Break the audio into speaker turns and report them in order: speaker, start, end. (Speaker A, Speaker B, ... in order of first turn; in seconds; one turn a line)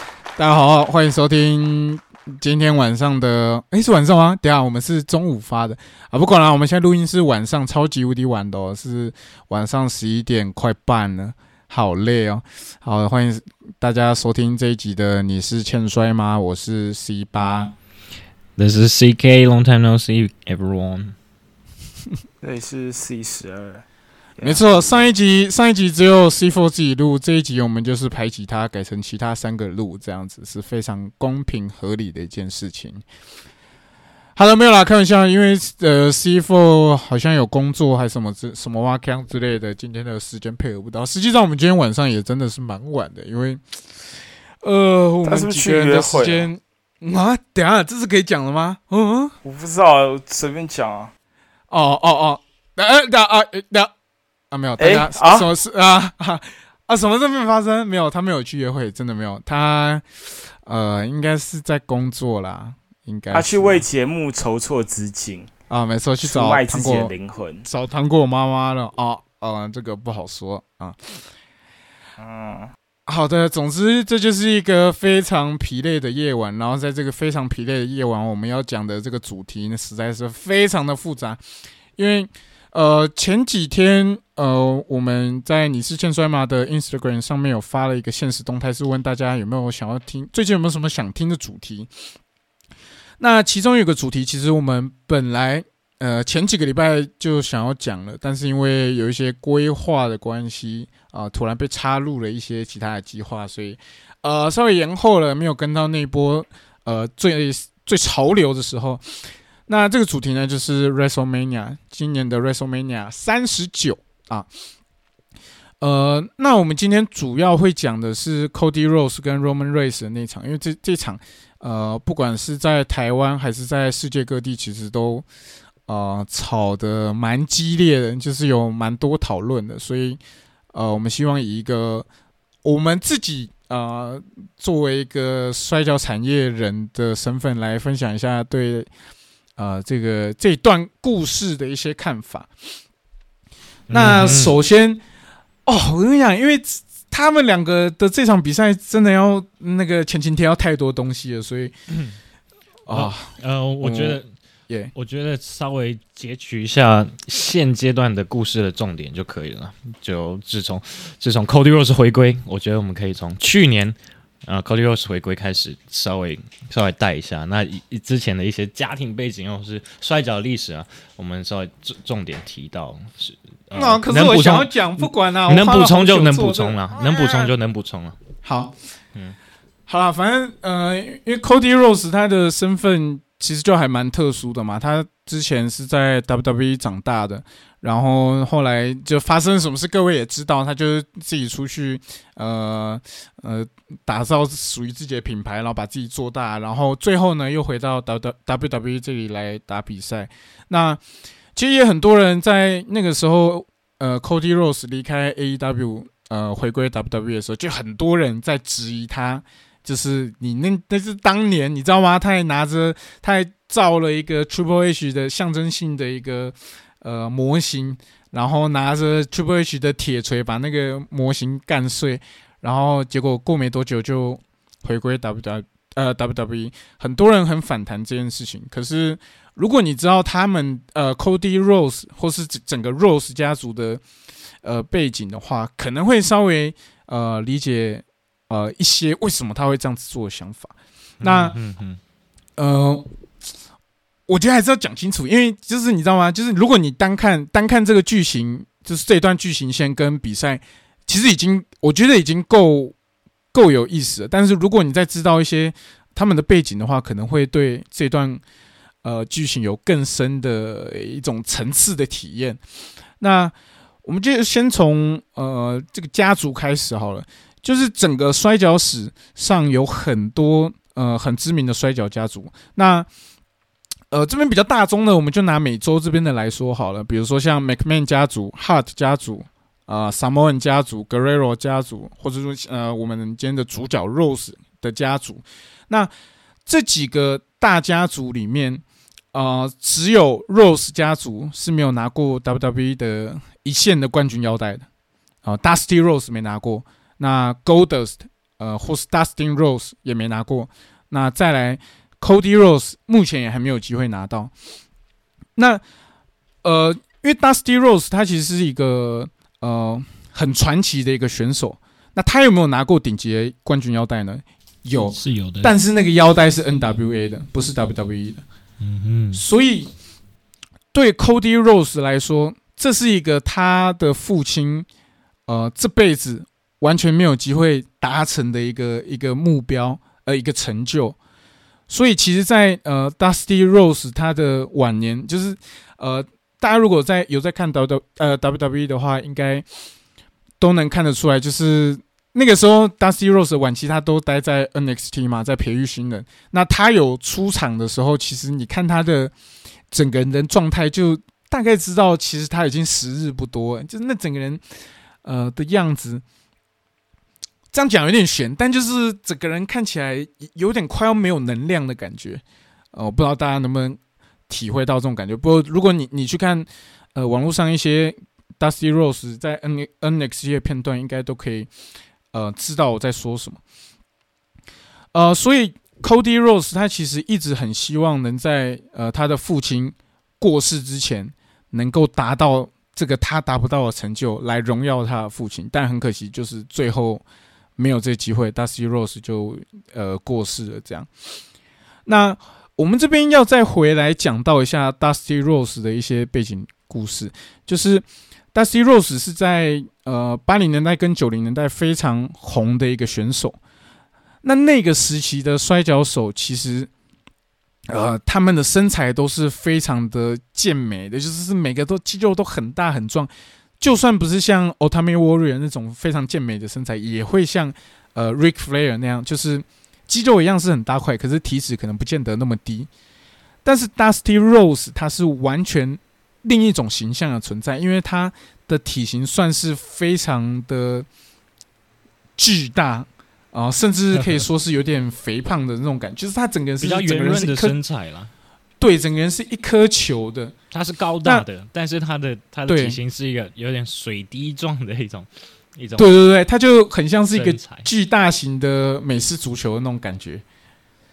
Speaker A: 0.3-17.7
Speaker B: 18.6-21.1
Speaker C: 22.4-23.8
Speaker C: 24.4-25.1
Speaker A: 24.4-33.0
Speaker A: 34.4-43.6
Speaker A: 44.6-49.3
Speaker C: 45.2-46.5
Speaker C: 49.4-51.1
Speaker A: 51.7-53.9
Speaker A: 54.5-63.8
Speaker C: 54.8-55.5
Speaker C: 63.3-65.5
Speaker A: 65.7-71.2
Speaker C: 66.2-67.6
Speaker C: 72.2-72.7
Speaker A: 73.1-81.4
Speaker A: 82.0-91.9
Speaker A: 93.2-114.5
Speaker A: 115.8-125.2
Speaker A: 125.9-130.2
Speaker A: 130.7-132.1
Speaker A: 132.6-138.9
Speaker A: 139.6-142.5
Speaker B: 143.9-144.6
Speaker A: 143.9-145.0
Speaker A: 145.7-151.7
Speaker B: 151.9-152.2
Speaker A: 152.9-154.9
Speaker B: 152.9-154.3
Speaker B: 154.9-178.2
Speaker A: 173.7-177.5
Speaker A: 178.4-178.7
Speaker A: 179.9-201.0
Speaker A: 201.5-234.0
Speaker A: 234.6-241.6
Speaker B: 241.2-242.0
Speaker A: 242.6-243.1
Speaker A: 244.3-252.9
Speaker A: 253.5-258.4
Speaker A: 259.0-262.6
Speaker A: 263.2-273.1
Speaker A: 274.1-286.1
Speaker A: 286.6-294.9
Speaker A: 295.4-304.5
Speaker A: 305.6-305.8
Speaker A: 306.6-318.4
Speaker B: 315.1-315.7
Speaker B: 318.8-319.4
Speaker A: 319.3-319.9
Speaker A: 320.9-324.9
Speaker A: 325.5-331.2
Speaker A: 331.9-339.6
Speaker A: 340.6-349.3
Speaker A: 349.9-354.6
Speaker A: 355.2-356.2
Speaker A: 357.7-362.4
Speaker A: 362.9-371.7
Speaker A: 372.3-373.6
Speaker A: 375.1-387.2
Speaker A: 387.8-391.1
Speaker A: 392.1-403.6
Speaker A: 404.4-406.9
Speaker A: 407.9-422.9
Speaker A: 423.6-431.1
Speaker A: 432.4-437.8
Speaker B: 434.1-434.4
Speaker B: 436.8-438.3
Speaker A: 438.8-440.5
Speaker B: 440.7-446.1
Speaker A: 442.7-443.0
Speaker A: 446.0-450.4
Speaker B: 447.3-447.9